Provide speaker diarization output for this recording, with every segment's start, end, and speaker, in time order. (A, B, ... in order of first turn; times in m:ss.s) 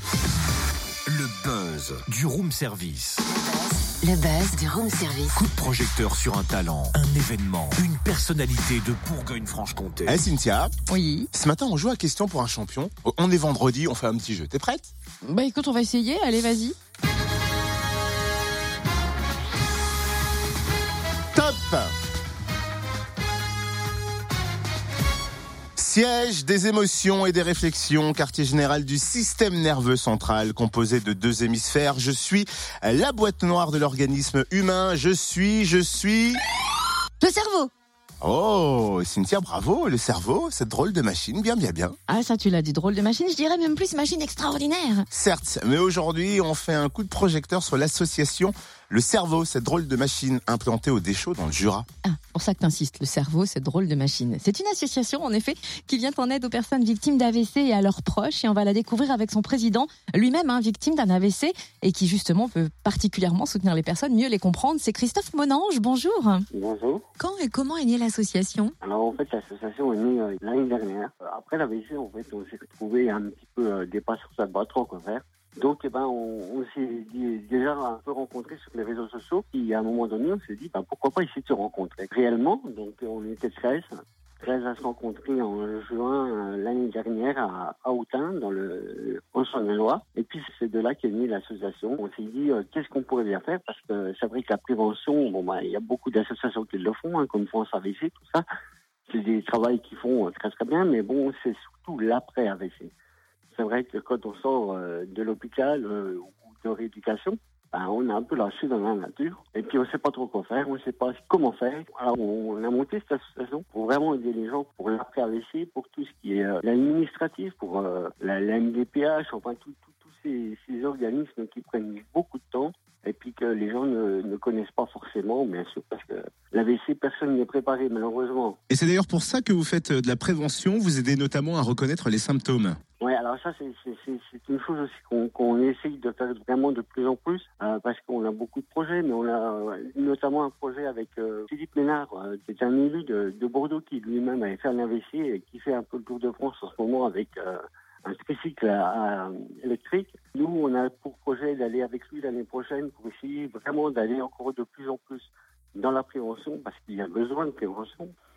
0:01.1-0:03.2 A
0:03.3-0:05.4 B
0:05.3-0:10.2 A
0:10.1-0:10.7 C
0:10.9-0:11.3 D
0:11.3-0:14.9 C
0:15.2-0:16.7 D
0:21.3-0:21.9 C
0:25.8-0:36.4 C
0:37.2-0:37.7 D
0:38.2-0:42.0 C
0:42.1-0:45.1 D
0:45.1-0:51.8 C
0:52.0-1:06.4 D
1:06.5-1:07.0 E
1:07.2-1:08.7 D
1:08.8-1:38.4 E
1:39.1-1:42.9 E
1:43.5-2:08.6 E
2:08.7-2:12.8 C
2:13.0-2:38.1 E